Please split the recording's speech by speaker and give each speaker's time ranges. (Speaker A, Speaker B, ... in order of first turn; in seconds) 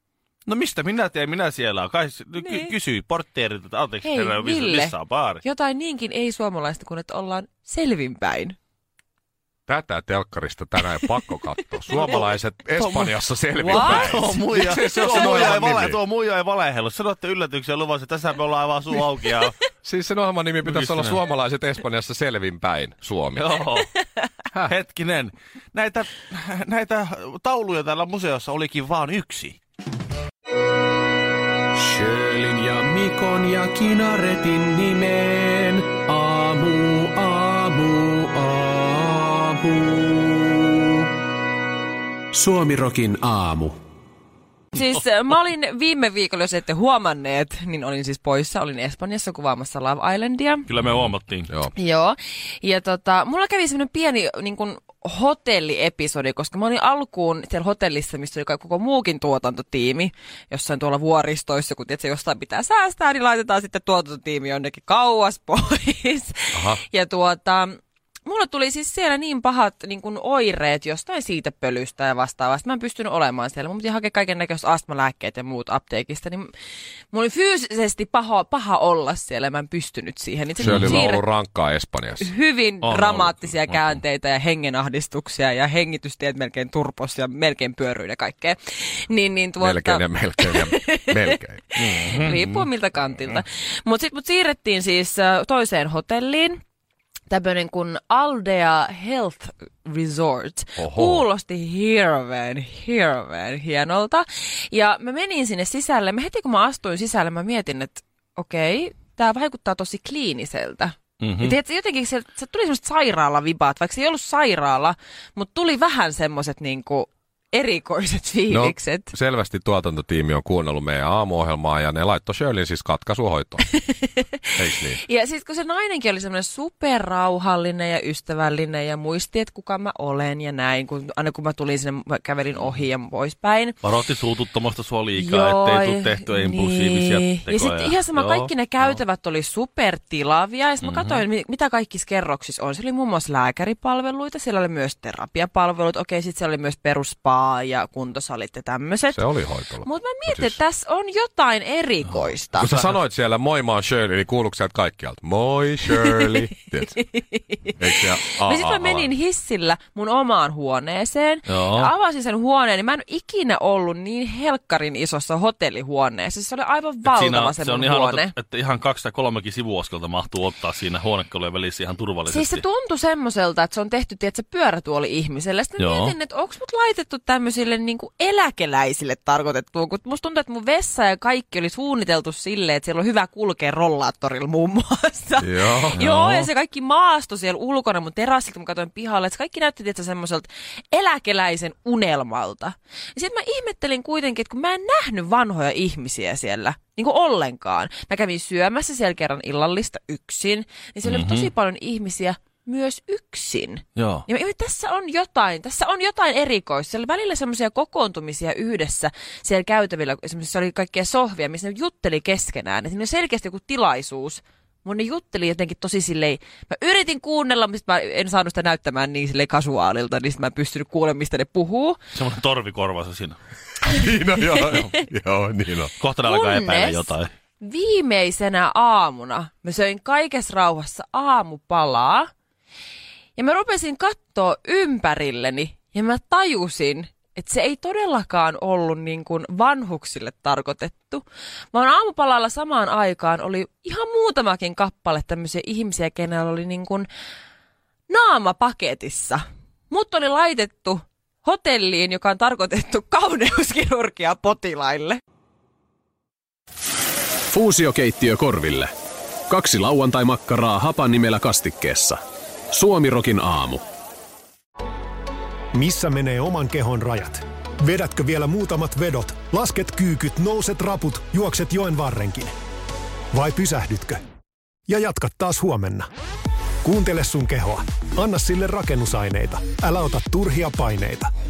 Speaker A: 0.5-5.4, 11.9-12.2, 12.8-19.6, 20.6-21.2, 23.4-23.9, 24.7-29.6, 50.7-51.5, 80.6-81.1, 82.8-83.8, 91.8-92.7, 111.2-111.5, 133.8-139.0, 140.8-141.2, 161.5-161.9, 167.1-172.6, 175.8-176.2, 186.0-186.5, 201.1-201.5, 204.0-204.2, 222.1-223.4, 226.0-227.3
Speaker B: 2.4-2.7, 4.0-8.6, 11.9-12.2, 13.7-15.4, 44.7-50.7, 51.7-76.5, 77.1-81.3, 82.2-96.6, 97.3-119.1, 123.7-133.8, 135.2-149.2, 149.8-152.9, 156.0-156.3, 157.0-168.3, 172.3-222.0, 224.5-224.9, 226.2-232.3, 233.4-247.1, 248.1-255.2
Speaker C: 9.7-16.0, 19.8-23.6, 66.5-66.8, 80.6-82.3, 89.6-91.6, 100.8-101.3, 118.5-123.7, 124.6-125.0, 149.1-150.6, 152.6-157.0, 157.8-159.1, 185.4-186.1, 223.9-225.9
Speaker D: 31.8-40.8, 42.3-43.8, 257.5-258.9, 259.5-262.2, 262.7-263.8
Speaker E: 265.7-272.5, 273.3-274.2, 274.9-276.1, 276.8-281.3